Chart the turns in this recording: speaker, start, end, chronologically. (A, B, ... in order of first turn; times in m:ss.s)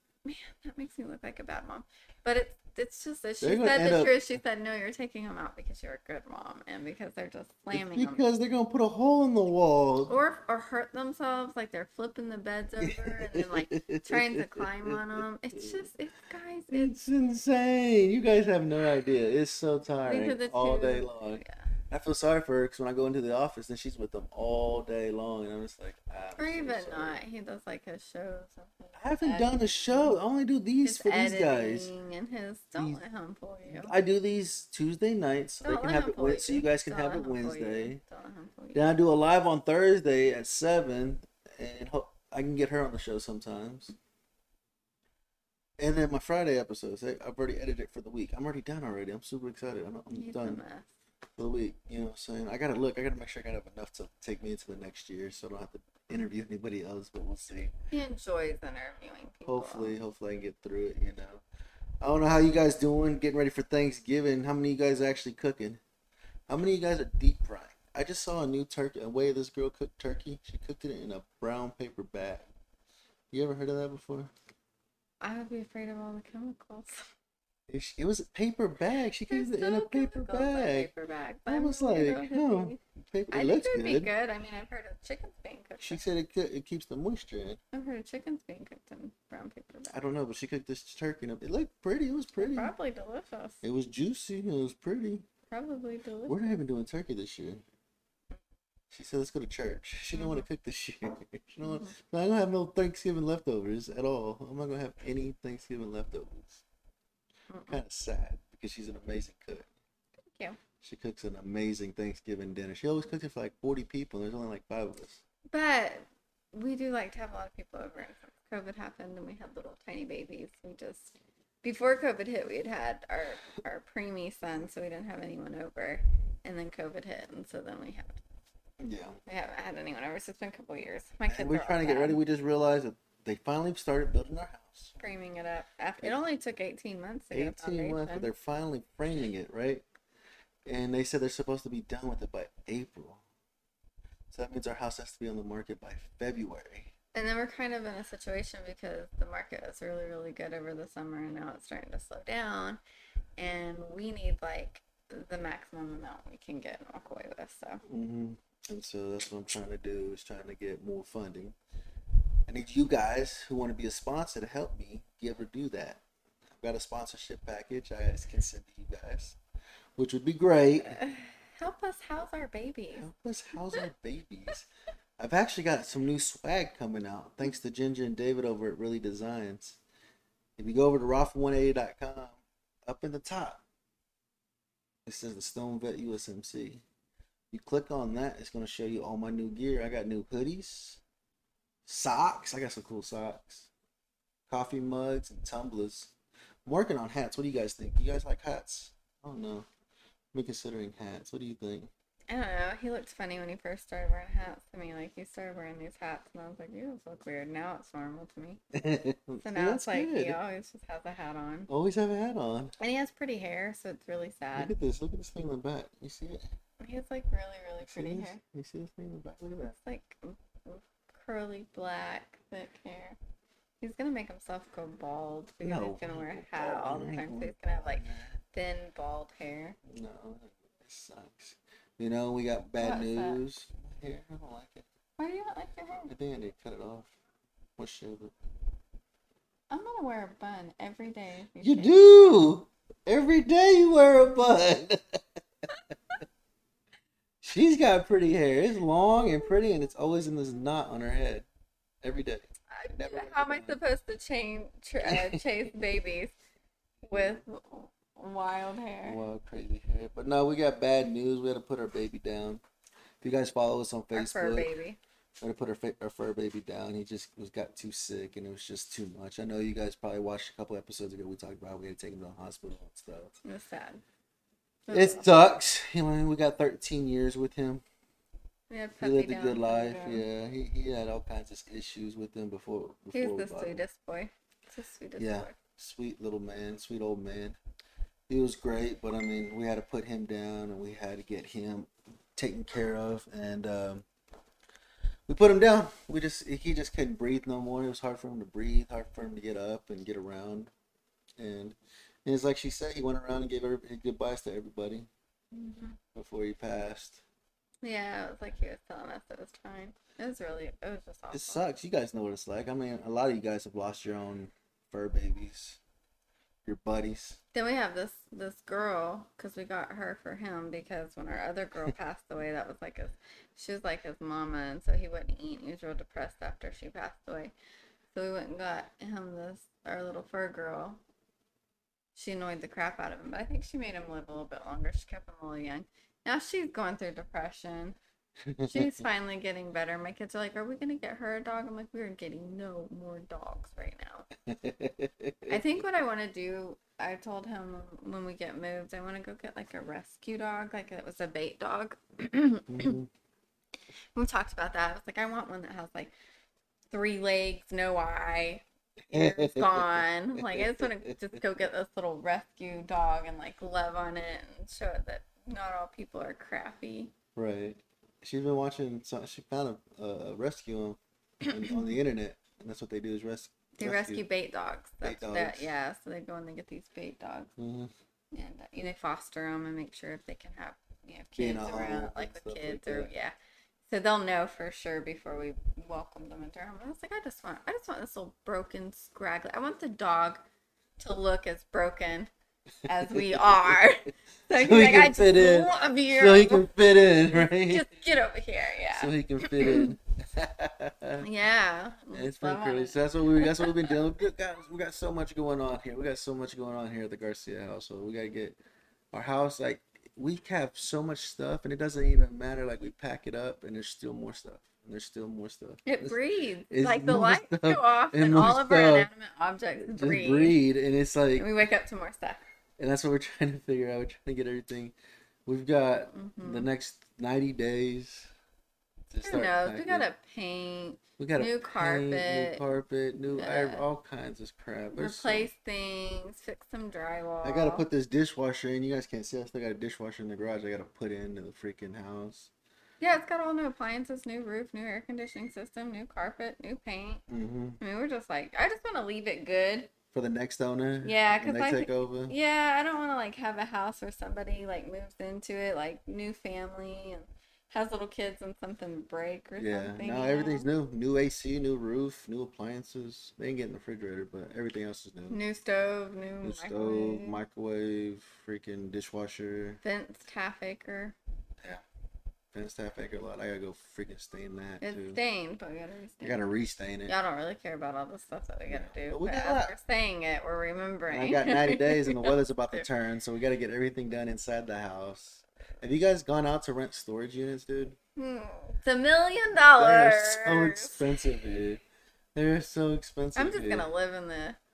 0:00.2-0:08.2 A
0:03.4-0:04.2 B
0:07.7-0:10.1 B
0:10.1-0:17.0 A
0:12.8-0:15.9 B
0:16.7-0:27.2 B
0:20.0-0:21.7 A
0:26.4-0:30.1 A
0:29.0-0:31.9 B
0:30.8-0:34.0 A
0:32.8-0:33.0 B
0:33.7-0:38.0 B
0:35.6-0:38.9 A
0:38.8-0:43.9 B
0:45.8-0:50.6 B
0:50.1-0:50.9 A
0:51.4-0:57.7 B
0:57.9-1:00.0 A
0:59.5-1:01.4 B
1:02.0-1:05.8 B
1:06.5-1:12.5 B
1:13.3-1:14.3 B
1:15.2-1:17.1 A
1:17.7-1:20.9 B
1:19.3-1:22.8 A
1:21.5-1:24.1 B
1:23.3-1:26.0 A
1:25.8-1:27.6 B
1:27.7-1:30.0 A
1:29.9-1:32.7 B
1:32.4-1:33.6 A
1:33.6-1:35.2 B
1:35.5-1:36.5 A
1:36.3-1:37.6 B
1:38.9-1:46.6 B
1:40.1-1:40.5 A
1:41.6-1:42.0 A
1:47.5-1:47.8 A
1:47.7-1:49.7 B
1:50.3-1:50.6 A
1:50.8-1:55.2 B
1:55.5-2:08.2 A
2:08.8-2:09.2 B
2:09.3-2:12.2 A
2:11.3-2:15.0 B
2:15.0-2:18.3 A
2:17.3-2:19.8 B
2:20.7-2:23.2 B
2:24.3-2:26.9 B
2:27.1-2:32.8 A
2:33.4-2:37.8 A
2:37.9-2:41.6 B
2:42.5-2:46.0 B
2:46.5-2:49.4 B
2:50.0-2:51.0 B
2:50.8-2:53.1 A
2:53.0-2:54.6 B
2:55.2-2:59.8 B
3:00.6-3:03.6 B
3:05.0-3:06.8 B
3:07.5-3:11.0 B
3:11.8-3:13.7 B
3:14.5-3:16.1 B
3:16.6-3:19.6 B
3:20.3-3:21.9 B
3:22.3-3:28.6 A
3:28.7-3:30.4 B
3:29.4-3:31.7 A
3:31.7-3:32.7 B
3:32.8-3:34.8 A
3:34.6-3:36.5 B
3:36.8-3:38.4 A
3:37.8-3:39.8 B
3:39.7-3:43.2 A
3:43.8-3:49.8 A
3:45.6-3:48.4 B
3:49.9-3:54.9 B
3:52.8-3:53.4 A
3:55.2-3:56.1 A
3:56.1-3:57.1 B
3:57.8-3:58.3 B
3:59.7-4:02.4 A
4:01.6-4:05.2 B
4:07.4-4:11.5 B
4:12.0-4:13.8 B
4:12.7-4:16.3 A
4:15.0-4:15.4 B
4:17.0-4:19.2 A
4:17.1-4:17.4 B
4:19.0-4:22.6 B
4:23.2-4:24.7 B
4:24.1-4:25.0 A
4:25.4-4:33.3 B
4:33.4-4:34.0 A
4:34.9-4:35.3 A
4:34.9-4:37.8 B
4:38.7-4:40.2 A
4:39.0-4:43.8 B
4:43.1-4:45.6 A
4:45.2-4:47.6 B
4:48.3-4:54.0 B
4:55.3-5:00.7 B
5:01.4-5:05.1 B
5:05.5-5:06.0 A
5:06.1-5:07.2 B
5:07.8-5:11.7 A
5:11.3-5:15.8 B
5:16.6-5:17.4 B
5:17.5-5:27.5 A
5:28.1-5:31.0 A
5:32.1-5:38.0 A
5:38.5-5:39.0 B
5:38.6-5:44.3 A
5:44.5-5:45.8 B
5:45.5-5:53.0 A
5:52.7-5:53.1 B
5:54.1-5:56.1 A
5:56.9-6:07.1 A
5:59.1-6:01.4 B
6:07.4-6:14.2 B
6:11.5-6:12.0 A
6:13.8-6:17.5 A
6:15.0-6:15.7 B
6:17.6-6:17.9 B
6:18.3-6:23.3 A
6:21.4-6:23.1 B
6:23.9-6:30.4 A
6:31.0-6:32.3 A
6:32.9-6:36.7 A
6:33.0-6:33.8 B
6:34.6-6:37.9 B
6:37.4-6:39.9 A
6:38.9-6:41.2 B
6:41.2-6:44.0 A
6:42.1-6:48.6 B
6:49.1-6:56.2 B
6:55.8-7:00.6 A
6:56.7-6:59.1 B
6:59.8-7:01.5 B
7:01.4-7:02.4 A
7:02.8-7:04.9 B
7:05.5-7:08.3 B
7:06.1-7:06.7 A
7:09.1-7:10.1 B
7:09.2-7:12.6 A
7:11.2-7:15.5 B
7:13.3-7:13.9 A
7:14.9-7:17.9 A
7:17.4-7:22.5 B
7:23.0-7:27.2 A
7:27.3-7:27.8 B
7:27.8-7:29.9 A
7:30.1-7:32.4 B
7:31.0-7:40.7 A
7:39.6-7:45.4 B
7:45.3-7:47.4 A
7:46.4-7:49.8 B
7:49.8-7:51.2 A
7:52.5-7:55.2 B
7:54.8-7:56.4 A
7:56.2-7:57.1 B
7:57.1-8:02.8 A
7:58.7-7:59.8 B
8:01.1-8:08.0 B
8:08.2-8:11.0 A
8:09.8-8:11.8 B
8:12.4-8:13.9 B
8:13.4-8:14.6 A